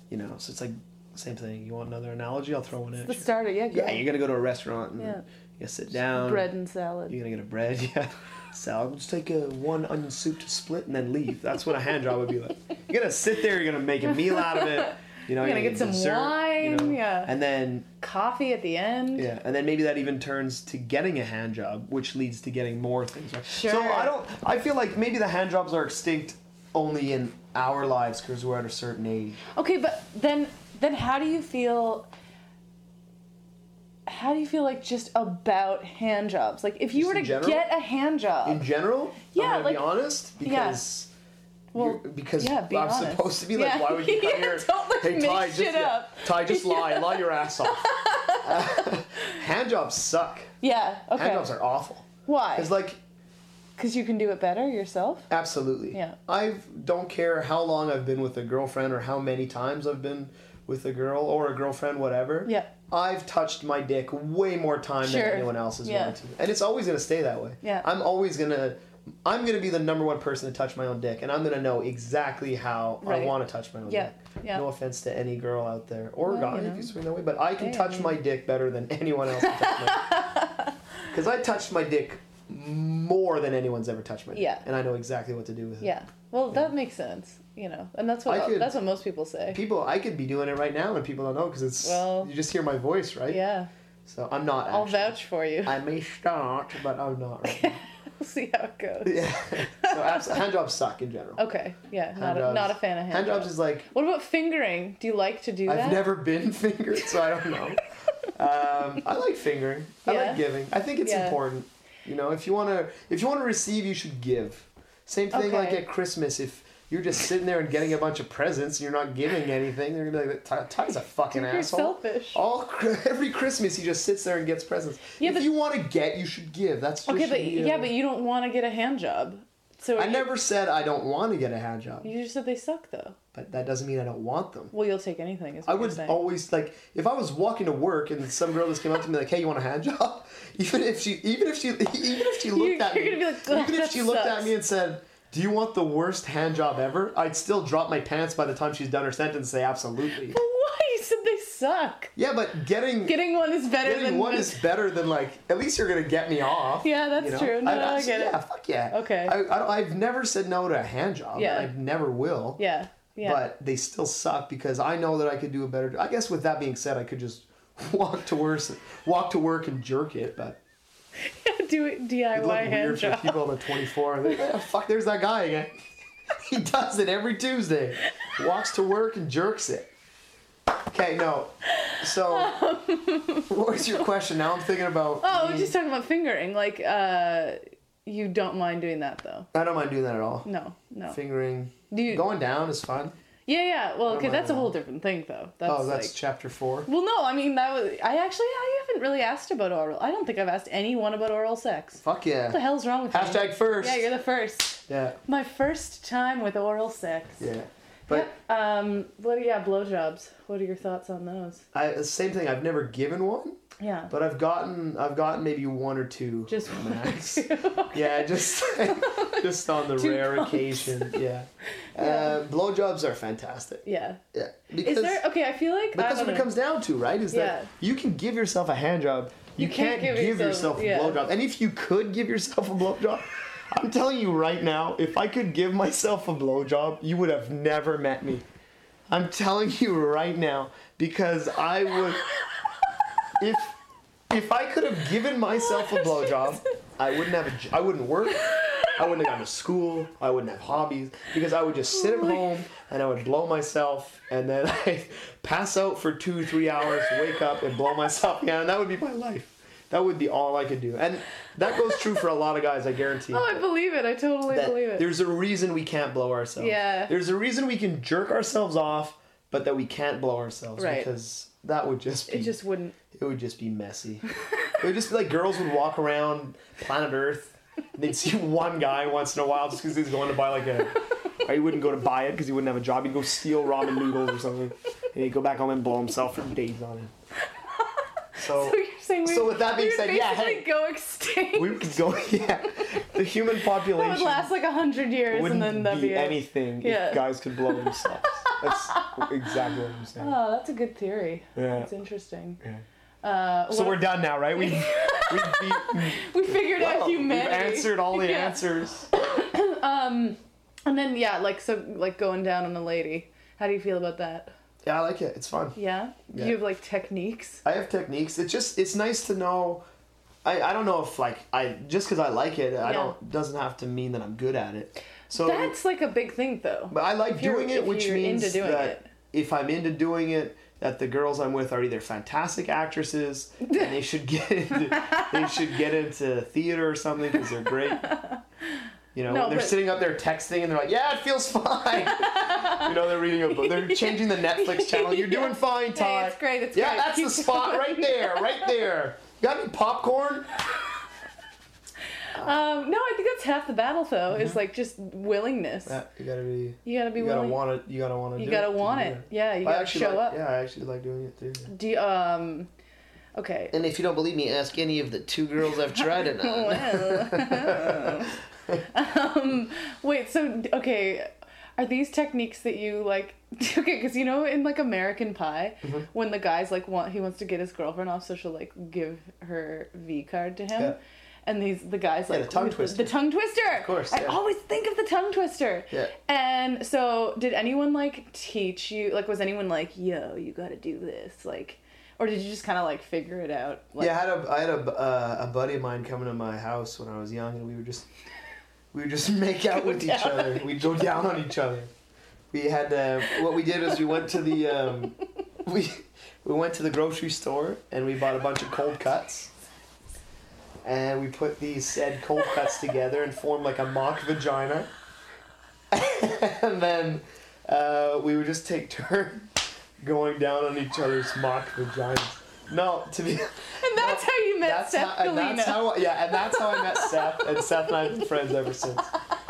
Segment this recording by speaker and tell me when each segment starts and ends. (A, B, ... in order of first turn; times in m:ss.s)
0:00.1-0:06.5 A
0:03.0-0:04.0 B
0:05.0-0:05.2 B
0:06.0-0:07.2 B
0:07.1-0:17.9 A
0:14.2-0:17.3 B
0:18.0-0:19.3 B
0:19.1-0:29.4 A
0:23.5-0:24.2 B
0:29.5-0:32.1 B
0:34.0-0:38.6 B
0:36.9-0:37.7 A
0:38.4-0:41.1 A
0:39.3-0:40.8 B
0:41.7-0:48.8 B
0:41.7-0:50.5 A
0:50.6-0:51.5 B
0:51.1-0:53.0 A
0:52.2-0:52.7 B
0:53.8-0:55.3 B
0:55.3-1:20.2 A
1:02.4-1:02.7 B
1:05.0-1:06.2 B
1:07.6-1:07.9 B
1:13.0-1:13.3 B
1:13.8-1:14.6 B
1:16.2-1:16.9 B
1:17.6-1:18.2 B
1:19.4-1:20.7 B
1:21.1-1:25.9 A
1:24.3-1:24.6 B
1:25.8-1:29.6 B
1:28.3-1:28.7 A
1:29.5-1:33.4 A
1:31.8-1:32.3 B
1:33.3-1:33.7 B
1:34.0-1:37.8 A
1:34.6-1:35.8 B
1:37.4-1:40.4 B
1:39.0-1:41.4 A
1:41.4-1:46.1 B
1:42.2-1:43.9 A
1:45.7-1:47.8 A
1:48.3-2:07.9 A
1:50.0-1:50.4 B
1:51.0-1:51.4 B
1:55.3-1:55.8 B
2:01.3-2:02.4 B
2:05.2-2:05.5 B
2:07.0-2:10.3 B
2:10.0-2:12.1 A
2:12.0-2:13.2 B
2:13.3-2:14.7 A
2:14.7-2:16.2 B
2:15.6-2:30.4 A
2:22.4-2:24.5 B
2:30.2-2:32.1 B
2:32.2-2:33.2 A
2:33.0-2:34.6 B
2:33.8-2:42.6 A
2:36.8-2:39.4 B
2:41.3-2:41.7 B
2:42.6-2:43.4 B
2:43.2-2:50.6 A
2:51.2-2:53.6 B
2:52.3-2:55.8 A
2:54.2-2:54.5 B
2:56.4-2:59.9 A
3:00.9-3:02.5 A
3:01.8-3:04.1 B
3:03.5-3:05.7 A
3:05.2-3:09.5 B
3:09.5-3:10.5 A
3:10.4-3:11.2 B
3:11.1-3:13.1 A
3:11.9-3:12.2 B
3:13.4-3:16.1 B
3:14.1-3:14.7 A
3:15.6-3:16.9 A
3:16.9-3:27.4 B
3:22.0-3:24.0 A
3:24.9-3:25.2 A
3:27.4-3:28.3 A
3:28.1-3:31.6 B
3:31.7-3:33.6 A
3:33.8-3:34.1 B
3:34.1-3:45.2 A
3:36.5-3:41.2 B
3:41.9-3:42.4 B
3:43.8-3:44.2 B
3:44.8-3:46.5 B
3:45.9-3:58.4 A
3:47.3-3:47.7 B
3:49.6-3:51.2 B
3:59.1-4:02.2 A
4:03.4-4:03.8 A
4:04.3-4:23.6 A
4:05.5-4:06.6 B
4:08.4-4:09.0 B
4:11.9-4:12.4 B
4:23.3-4:25.1 B
4:24.5-4:32.6 A
4:26.6-4:27.1 B
4:30.8-4:31.1 B
4:32.3-4:33.0 B
4:33.1-4:47.1 A
4:47.7-4:53.0 B
4:48.4-4:50.6 A
4:51.5-4:54.5 A
4:53.8-4:59.5 B
4:55.3-5:00.4 A
5:00.2-5:02.6 B
5:01.5-5:01.9 A
5:03.2-5:14.5 B
5:03.7-5:09.1 A
5:14.8-5:15.8 A
5:15.8-5:17.6 B
5:16.3-5:16.6 A
5:17.6-5:19.8 A
5:20.4-5:25.8 A
5:22.8-5:23.1 B
5:25.3-5:29.1 B
5:26.9-5:38.1 A
5:33.7-5:33.9 B
5:34.9-5:35.6 B
5:37.4-5:39.8 B
5:39.1-5:50.5 A
5:42.0-5:48.8 B
5:52.3-5:56.0 B
5:54.3-5:54.6 A
5:55.9-6:01.7 A
5:56.8-5:57.6 B
5:58.4-6:00.4 B
6:01.7-6:02.7 B
6:03.3-6:03.7 B
6:03.7-6:08.8 A
6:05.9-6:08.3 B
6:08.9-6:34.2 B
6:22.3-6:24.4 A
6:34.0-6:38.0 A
6:38.9-6:41.9 A
6:39.7-6:40.8 B
6:42.5-6:49.5 A
6:50.8-6:54.9 A
6:55.9-6:59.5 A
7:00.0-7:09.1 A
7:03.8-7:08.3 B